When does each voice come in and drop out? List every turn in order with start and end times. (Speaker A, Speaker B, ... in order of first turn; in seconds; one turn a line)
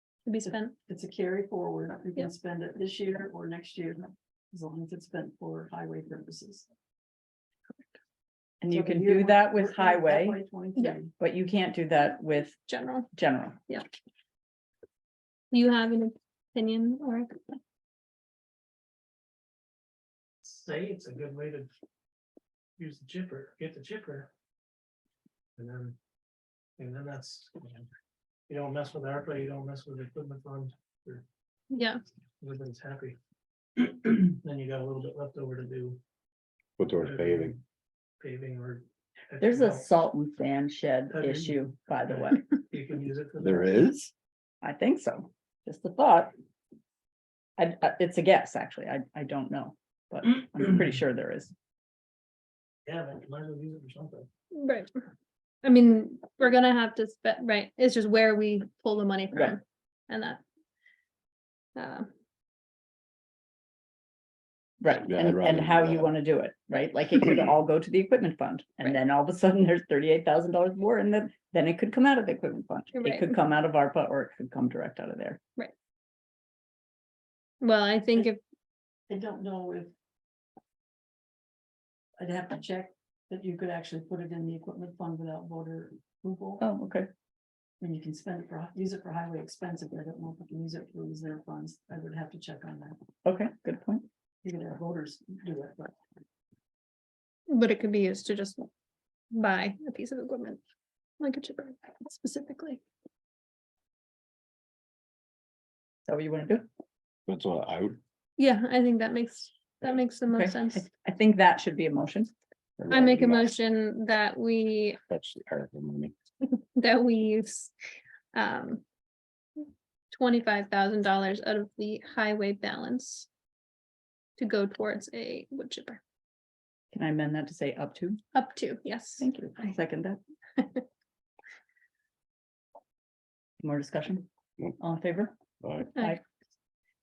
Speaker A: 0.2-0.7
Speaker B: 0.4-6.7
Speaker C: 8.6-10.4
Speaker B: 8.7-11.1
Speaker C: 11.2-12.6
Speaker A: 12.7-13.1
Speaker C: 13.1-13.6
Speaker A: 15.5-17.3
Speaker D: 20.4-21.7
Speaker D: 22.8-24.3
Speaker D: 25.6-26.0
Speaker D: 26.8-27.9
Speaker D: 28.5-31.2
Speaker A: 31.7-32.0
Speaker D: 32.4-33.2
Speaker D: 33.8-36.0
Speaker E: 36.8-37.6
Speaker D: 36.9-37.6
Speaker D: 38.2-39.8
Speaker C: 39.4-42.4
Speaker D: 41.1-43.9
Speaker E: 43.4-44.1
Speaker C: 44.6-46.3
Speaker C: 47.6-51.5
Speaker D: 52.9-54.3
Speaker A: 54.5-54.9
Speaker A: 55.6-60.4
Speaker A: 61.8-62.1
Speaker C: 64.8-75.4
Speaker E: 65.1-66.1
Speaker A: 72.9-73.3
Speaker A: 77.6-78.4
Speaker B: 79.1-79.9
Speaker B: 82.2-86.6
Speaker C: 86.6-87.1
Speaker B: 87.8-93.0
Speaker C: 93.2-94.1
Speaker B: 94.4-95.9
Speaker A: 97.5-98.7
Speaker A: 99.3-100.6
Speaker A: 101.2-102.8
Speaker C: 106.1-106.7
Speaker E: 107.3-108.0
Speaker A: 108.4-110.8
Speaker C: 110.3-112.3
Speaker E: 112.8-113.6
Speaker A: 112.9-115.0
Speaker E: 115.1-116.1
Speaker A: 116.5-117.7
Speaker A: 118.3-118.8
Speaker A: 120.1-123.3
Speaker A: 124.4-126.0
Speaker C: 126.9-128.2
Speaker A: 128.3-129.3
Speaker C: 129.2-130.2
Speaker A: 130.6-130.8
Speaker C: 133.6-135.4
Speaker E: 135.6-135.9
Speaker C: 135.9-136.2